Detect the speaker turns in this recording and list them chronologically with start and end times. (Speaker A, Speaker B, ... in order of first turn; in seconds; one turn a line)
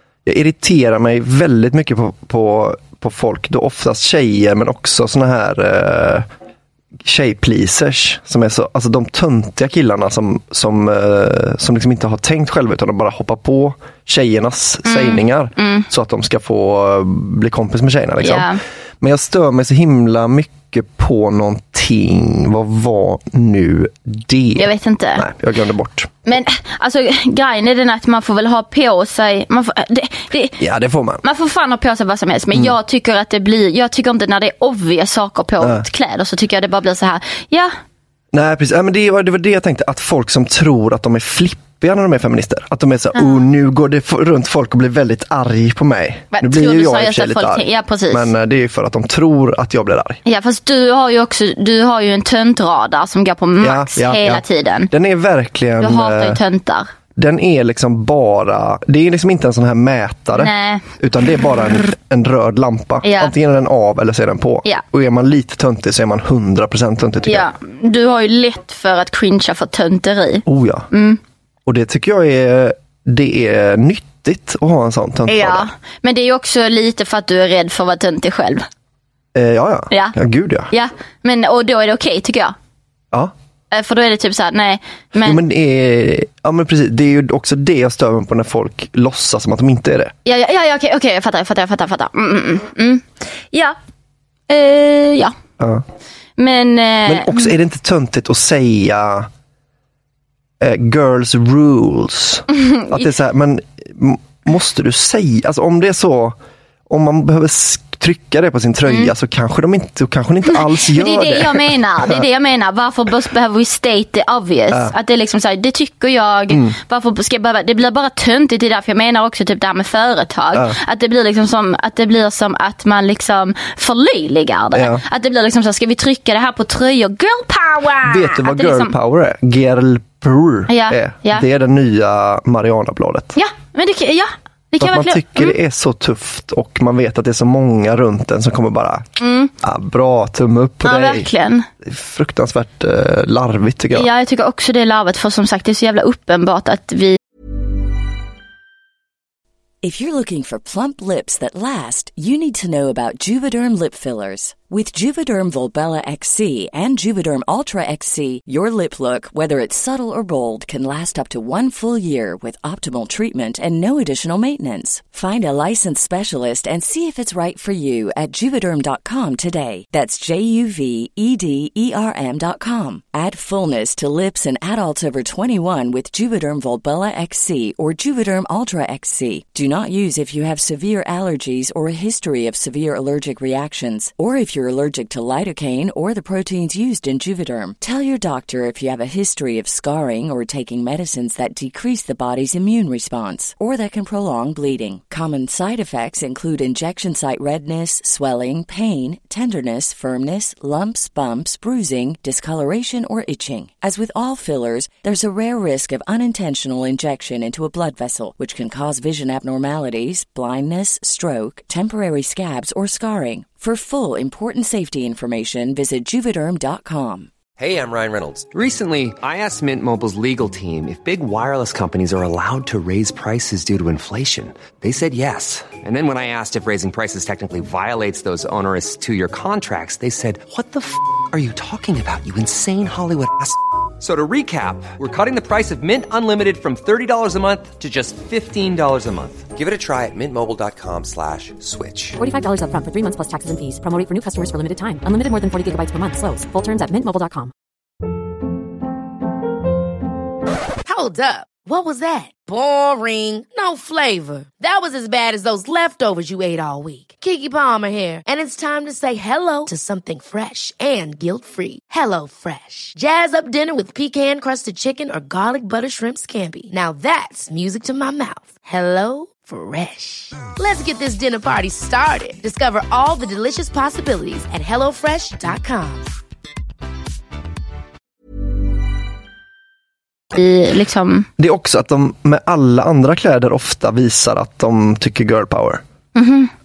Speaker A: 0.2-6.3
Speaker A: 7.0-26.3
Speaker B: 14.8-15.9
Speaker B: 18.2-18.6
Speaker B: 24.6-25.3
Speaker B: 26.3-30.6
Speaker A: 30.6-31.2
Speaker B: 31.2-37.7
Speaker A: 38.3-50.2
Speaker B: 43.1-43.4
Speaker B: 46.3-48.3
Speaker B: 50.2-54.9
Speaker A: 53.6-56.4
Speaker B: 55.8-56.9
Speaker A: 57.1-67.5
Speaker B: 60.3-60.9
Speaker B: 63.0-63.3
Speaker B: 67.2-71.2
Speaker A: 70.5-70.9
Speaker A: 71.7-75.7
Speaker B: 75.3-78.7
Speaker A: 79.3-80.7
Speaker B: 80.7-82.5
Speaker B: 83.7-85.4
Speaker A: 85.2-90.1
Speaker B: 90.2-93.8
Speaker B: 94.5-95.3
Speaker A: 95.6-95.8
Speaker B: 96.4-97.5
Speaker A: 97.0-99.3
Speaker A: 100.6-106.4
Speaker B: 102.5-103.1
Speaker A: 106.9-112.2
Speaker B: 108.9-109.1
Speaker B: 110.5-128.9
Speaker A: 116.5-116.8
Speaker A: 124.7-125.0
Speaker A: 128.0-133.3
Speaker B: 130.7-131.4
Speaker B: 133.3-135.5
Speaker A: 134.8-139.1
Speaker B: 139.2-139.5
Speaker A: 139.6-141.3
Speaker B: 140.8-141.7
Speaker A: 141.8-144.1
Speaker B: 143.9-147.2
Speaker C: 149.8-217.3
Speaker D: 217.6-242.2
Speaker E: 242.2-247.5
Speaker F: 250.8-276.1
Speaker B: 280.3-281.3
Speaker A: 281.4-285.8
Speaker B: 286.1-286.5